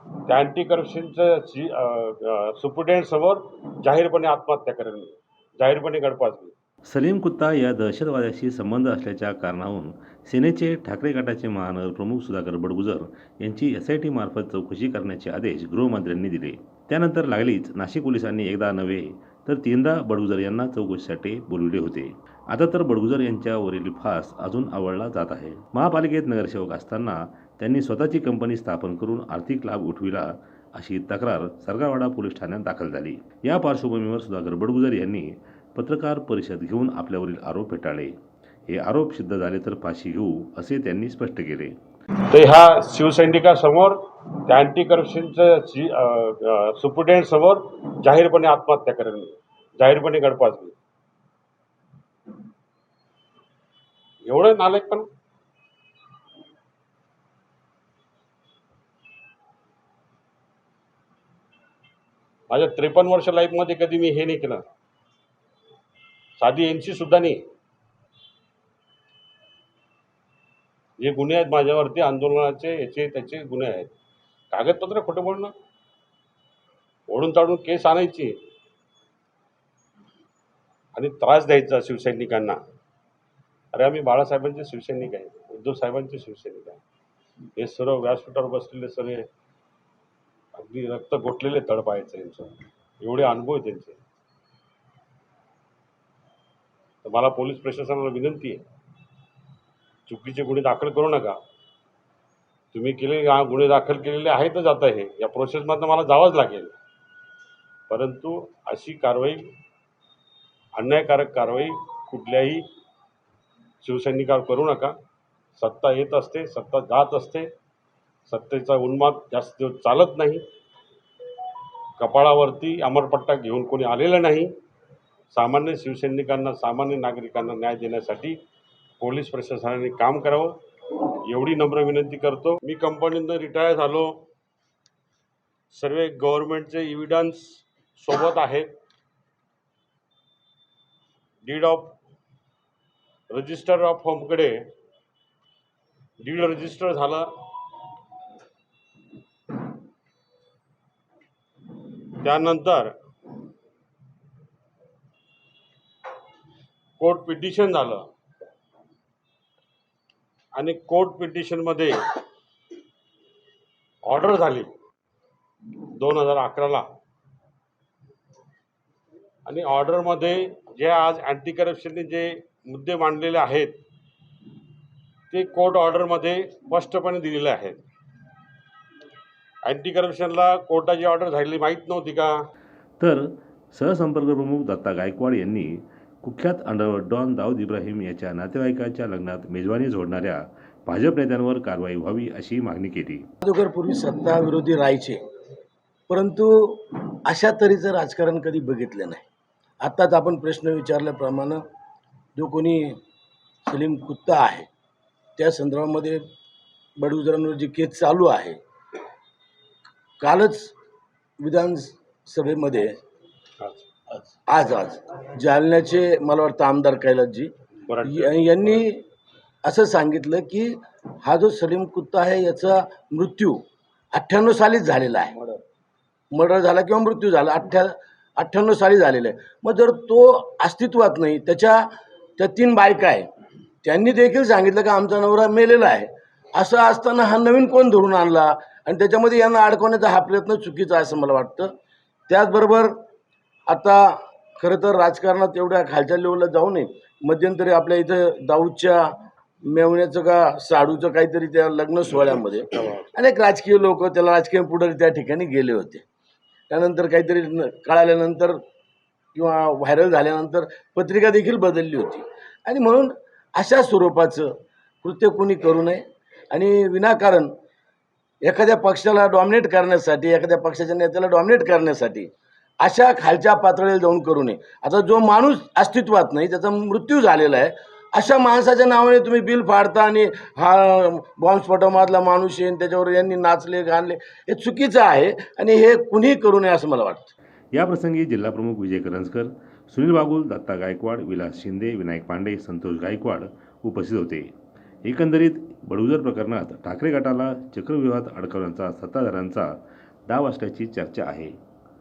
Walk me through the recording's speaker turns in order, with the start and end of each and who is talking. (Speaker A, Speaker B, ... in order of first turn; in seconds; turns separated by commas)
Speaker A: 0.3-6.5, Speaker B: 6.9-38.1, Speaker B: 38.7-41.8, Speaker A: 42.3-50.8, Speaker A: 54.2-55.1, Speaker A: 62.5-64.6, Speaker A: 66.4-67.4, Speaker A: 71.0-73.9, Speaker A: 74.5-75.5, Speaker A: 77.1-78.3, Speaker A: 81.0-82.6, Speaker A: 83.7-86.8, Speaker A: 87.6-89.3, Speaker A: 90.6-94.0, Speaker A: 97.0-98.6, Speaker A: 100.1-101.4, Speaker A: 102.7-106.8, Speaker A: 107.9-109.5, Speaker A: 110.8-112.6, Speaker A: 113.8-115.0, Speaker A: 115.6-117.5, Speaker A: 118.3-120.4, Speaker A: 122.0-124.5, Speaker A: 125.3-128.4, Speaker A: 129.0-130.6, Speaker A: 131.2-134.2, Speaker A: 135.7-138.7, Speaker A: 141.4-141.9, Speaker A: 143.3-144.7, Speaker A: 146.2-147.3, Speaker A: 152.2-152.9, Speaker A: 157.0-158.0, Speaker A: 160.6-162.1, Speaker A: 164.1-164.7, Speaker A: 166.0-166.9, Speaker A: 169.5-173.8, Speaker A: 175.3-177.8, Speaker A: 179.7-182.3, Speaker B: 183.0-193.3, Speaker C: 193.4-195.2, Speaker C: 196.1-199.2, Speaker C: 199.8-201.6, Speaker C: 202.4-202.9, Speaker C: 203.7-204.7, Speaker C: 205.4-206.2, Speaker C: 207.0-208.6, Speaker C: 210.2-210.7, Speaker C: 211.4-213.0, Speaker A: 213.6-213.9, Speaker C: 214.5-217.5, Speaker A: 217.8-218.4, Speaker C: 218.1-219.0, Speaker C: 219.6-223.6, Speaker C: 224.1-225.5, Speaker C: 226.3-233.3, Speaker C: 233.8-241.7, Speaker C: 242.3-242.9, Speaker C: 243.7-249.1, Speaker C: 249.7-256.0, Speaker A: 252.1-253.1, Speaker C: 256.7-258.6, Speaker C: 259.4-264.5, Speaker C: 265.0-266.0, Speaker C: 266.5-267.5, Speaker C: 268.4-272.3, Speaker C: 272.8-287.3, Speaker B: 287.7-294.5, Speaker B: 295.1-299.7, Speaker B: 300.3-301.5